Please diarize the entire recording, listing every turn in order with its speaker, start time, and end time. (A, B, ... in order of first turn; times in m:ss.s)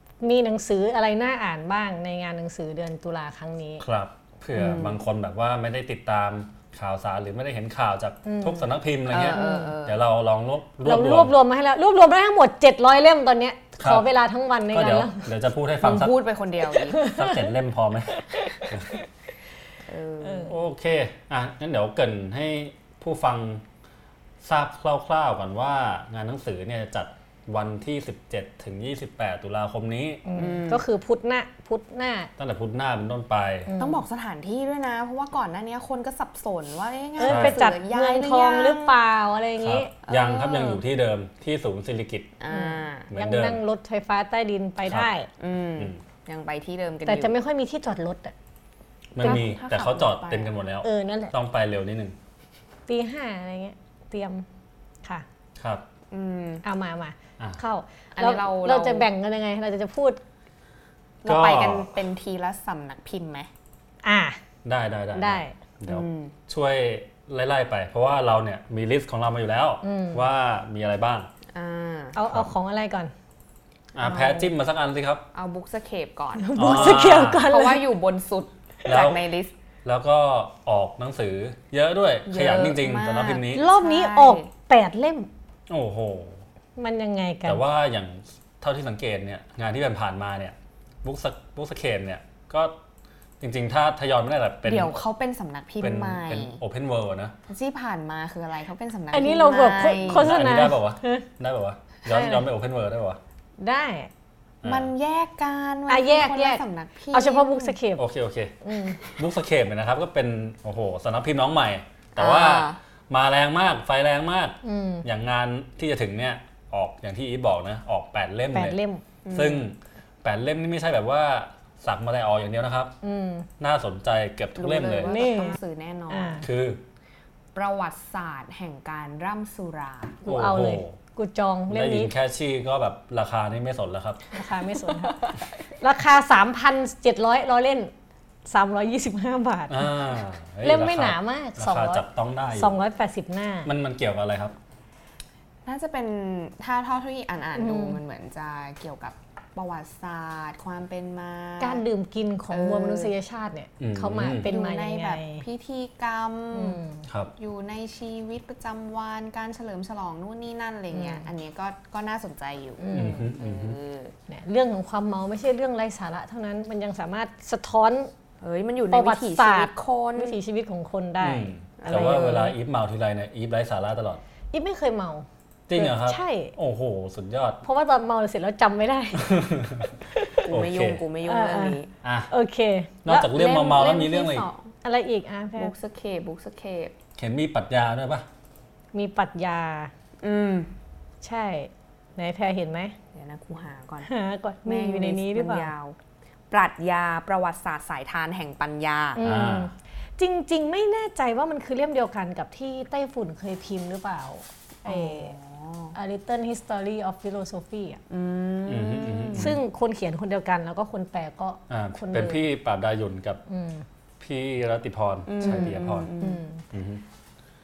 0:00.2-0:03.8 A
0:03.8-0:11.3 B
0:04.6-0:05.0 C
0:08.2-0:08.7 A
0:09.1-0:10.0 C
0:09.3-0:09.8 A
0:10.8-0:15.3 A
0:13.8-0:14.1 B
0:14.7-0:16.2 B
0:15.8-0:17.1 C
0:16.7-0:17.5 A
0:17.0-0:18.9 B
0:18.1-0:19.0 A
0:19.8-0:20.6 C
0:20.2-0:20.5 A
0:20.5-0:23.6 B
0:24.4-0:30.2 B
0:30.2-0:32.3 A
0:30.4-0:30.8 C
0:32.4-0:33.7 B
0:33.7-0:34.0 A
0:33.8-0:39.0 C
0:37.2-0:39.9 A
0:37.2-0:37.7 B
0:39.6-0:42.3 B
0:40.0-0:40.8 C
0:42.4-0:43.1 C
0:42.5-0:45.3 A
0:43.1-0:43.6 B
0:45.4-0:47.3 C
0:47.1-0:48.3 A
0:49.1-0:52.2 B
0:49.2-0:50.5 C
0:49.2-0:49.5 A
0:50.8-0:51.3 A
0:52.9-0:54.4 A
0:55.6-0:55.9 B
0:56.1-0:56.6 C
0:56.6-1:00.2 A
0:58.1-0:59.1 C
1:01.2-1:03.5 C
1:01.3-1:01.9 B
1:04.0-1:04.4 A
1:04.6-1:11.3 B
1:05.2-1:05.6 A
1:05.9-1:06.4 C
1:09.8-1:10.3 A
1:11.5-1:12.2 C
1:12.1-1:13.1 A
1:14.0-1:15.2 B
1:14.0-1:14.5 C
1:15.3-1:19.5 C
1:16.4-1:17.9 A
1:16.6-1:17.5 B
1:18.9-1:19.2 B
1:19.8-1:23.6 B
1:22.3-1:24.5 C
1:23.5-1:25.3 A
1:25.7-1:26.4 B
1:26.8-1:27.6 A
1:27.4-1:32.8 B
1:33.4-1:35.0 B
1:34.6-1:36.6 C
1:35.8-1:37.4 B
1:37.5-1:40.3 C
1:39.1-1:41.3 A
1:40.0-1:43.2 B
1:42.0-1:42.4 A
1:43.6-1:44.1 A
1:44.6-1:44.9 B
1:44.6-1:47.8 C
1:45.9-1:48.0 A
1:48.0-1:58.8 B
1:48.6-1:49.0 A
1:52.2-1:52.8 C
1:54.6-1:55.1 A
1:58.5-1:59.0 A
1:59.2-1:59.7 C
1:59.3-2:02.9 B
2:03.0-2:03.5 A
2:03.6-2:05.2 B
2:04.6-2:06.4 C
2:05.0-2:05.6 A
2:06.1-2:06.5 A
2:06.4-2:06.8 B
2:07.6-2:10.2 C
2:10.2-2:12.1 A
2:10.3-2:11.0 B
2:11.7-2:14.2 B
2:14.3-2:17.9 A
2:14.8-2:15.3 C
2:18.5-2:19.9 A
2:19.7-2:22.8 B
2:20.6-2:22.0 A
2:22.6-2:23.7 A
2:23.7-2:24.6 B
2:25.6-2:31.8 C
2:27.6-2:28.0 A
2:31.6-2:35.4 A
2:32.5-2:33.1 C
2:33.8-2:34.5 B
2:34.4-2:36.8 C
2:36.5-2:37.0 A
2:37.1-2:37.3 B
2:37.4-2:44.1 C
2:40.9-2:41.3 A
2:42.8-2:43.3 A
2:42.9-2:43.8 B
2:44.3-2:48.1 A
2:48.4-2:50.4 C
2:48.9-2:52.5 A
2:51.2-2:54.2 B
2:51.8-2:52.5 C
2:54.5-2:56.5 A
2:55.7-2:57.6 B
2:57.6-2:59.4 A
2:59.2-3:01.0 B
3:00.1-3:00.4 A
3:00.4-3:01.9 C
3:01.2-3:01.8 A
3:02.0-3:02.3 B
3:02.3-3:03.3 A
3:03.0-3:04.5 B
3:03.2-3:04.7 C
3:04.8-3:05.7 A
3:05.6-3:06.9 C
3:07.2-3:08.3 B
3:08.9-3:09.9 A
3:10.2-3:10.7 C
3:11.2-3:13.0 A
3:13.1-3:14.1 C
3:14.0-3:15.7 A
3:14.6-3:16.0 C
3:16.5-3:19.2 C
3:19.2-3:25.4 A
3:19.2-3:19.7 B
3:24.9-3:25.9 C
3:25.9-3:28.0 A
3:28.1-3:29.5 C
3:28.7-3:29.6 B
3:29.3-3:32.5 A
3:31.7-3:33.4 B
3:33.5-3:33.8 A
3:34.2-3:36.1 B
3:35.3-3:36.4 C
3:35.4-3:36.6 A
3:36.7-3:37.0 B